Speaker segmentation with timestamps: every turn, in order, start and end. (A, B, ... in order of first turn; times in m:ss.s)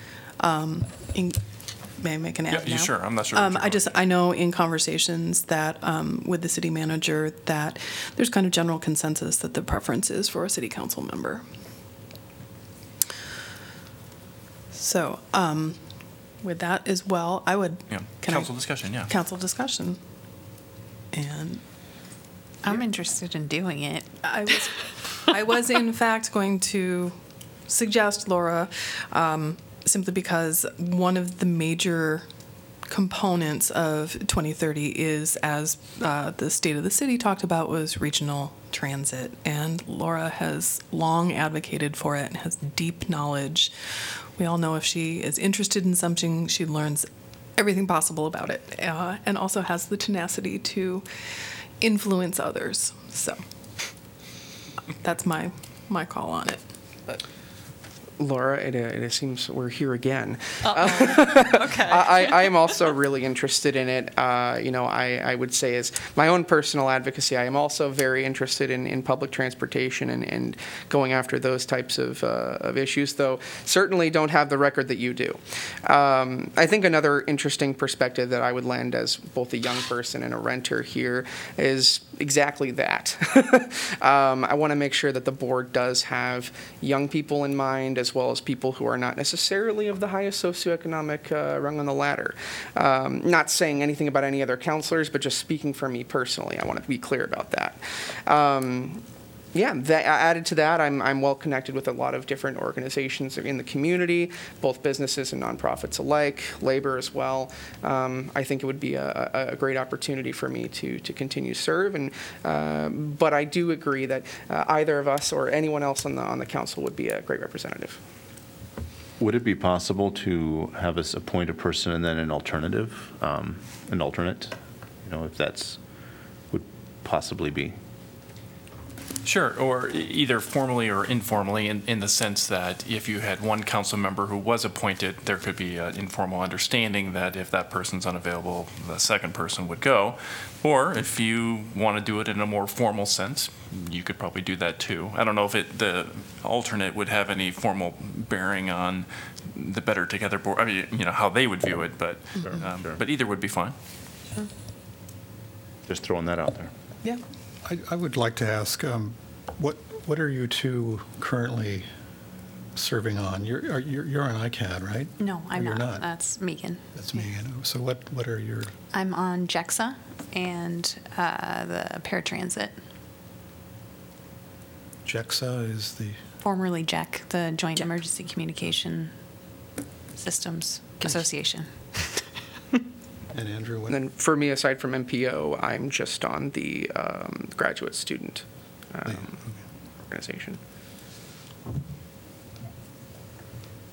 0:00.4-0:01.4 A
0:02.0-0:11.4 A
0:02.5-0:03.9 B
0:14.7-0:15.8 A
0:16.4-0:18.5 A
0:17.9-0:19.1 B
0:19.1-0:20.0 A
0:21.1-0:21.6 A
0:22.6-0:24.8 C
0:24.2-0:27.2 A
0:27.7-0:32.3 A
0:32.9-0:43.7 A
0:44.4-0:51.1 A
0:51.8-0:53.4 A
0:55.0-0:56.6 A
0:58.2-1:39.0 D
1:00.6-1:02.8 C
1:39.5-1:58.0 D
1:59.2-2:05.9 E
2:06.5-2:07.8 E
2:09.2-2:33.8 B
2:32.4-2:33.0 E
2:35.9-2:36.7 E
2:37.6-2:41.9 F
2:42.8-2:46.1 F
2:45.2-2:47.3 C
2:46.9-2:48.7 F
2:48.9-2:52.8 C
2:55.0-2:56.2 F
2:56.4-2:59.2 C
3:00.2-3:02.2 C
3:03.3-3:04.0 F
3:03.9-3:09.4 D
3:09.1-3:09.6 F
3:10.1-3:10.6 D